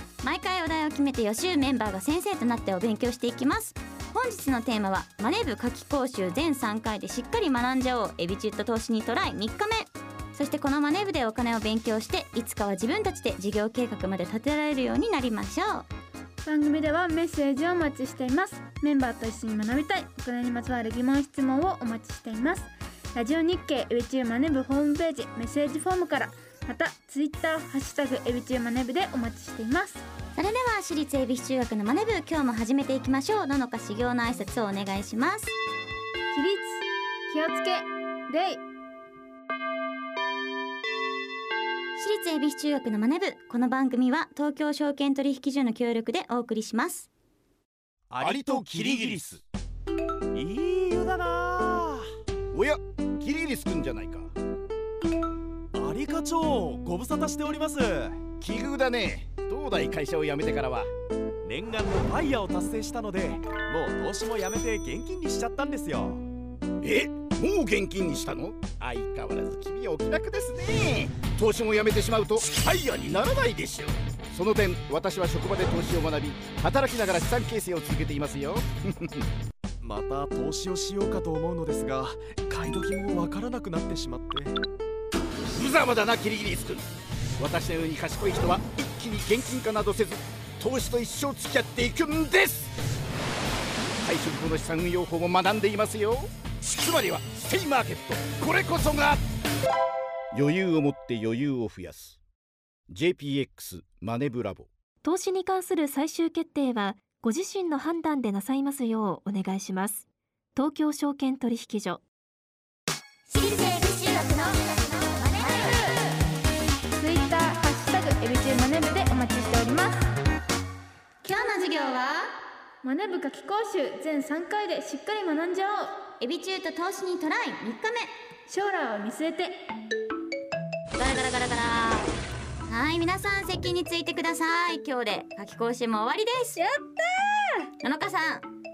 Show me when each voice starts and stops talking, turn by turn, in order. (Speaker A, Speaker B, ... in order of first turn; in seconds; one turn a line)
Speaker A: 0.2-15.9
Speaker B: 16.4-30.0
Speaker A: 30.4-35.5
Speaker B: 36.3-38.6
Speaker A: 42.0-47.1
Speaker C: 48.1-49.2
Speaker D: 48.2-49.4
Speaker D: 50.4-50.9
Speaker C: 50.9-52.0
Speaker D: 52.5-54.3
Speaker C: 55.7-58.3
Speaker D: 58.3-60.9
Speaker C: 61.4-66.2
Speaker D: 66.8-79.2
Speaker C: 79.8-84.6
Speaker D: 85.5-92.7
Speaker D: 94.0-99.2
Speaker D: 100.3-102.2
Speaker D: 102.9-104.7
Speaker E: 105.0-112.0
Speaker A: 113.3-116.1
Speaker B: 117.0-120.1
Speaker A: 121.2-122.3
Speaker B: 122.8-126.0
Speaker A: 126.2-128.1
Speaker B: 128.5-129.6
Speaker A: 130.9-132.1
Speaker A: 132.7-136.6
Speaker B: 136.6-137.7
Speaker A: 137.8-138.5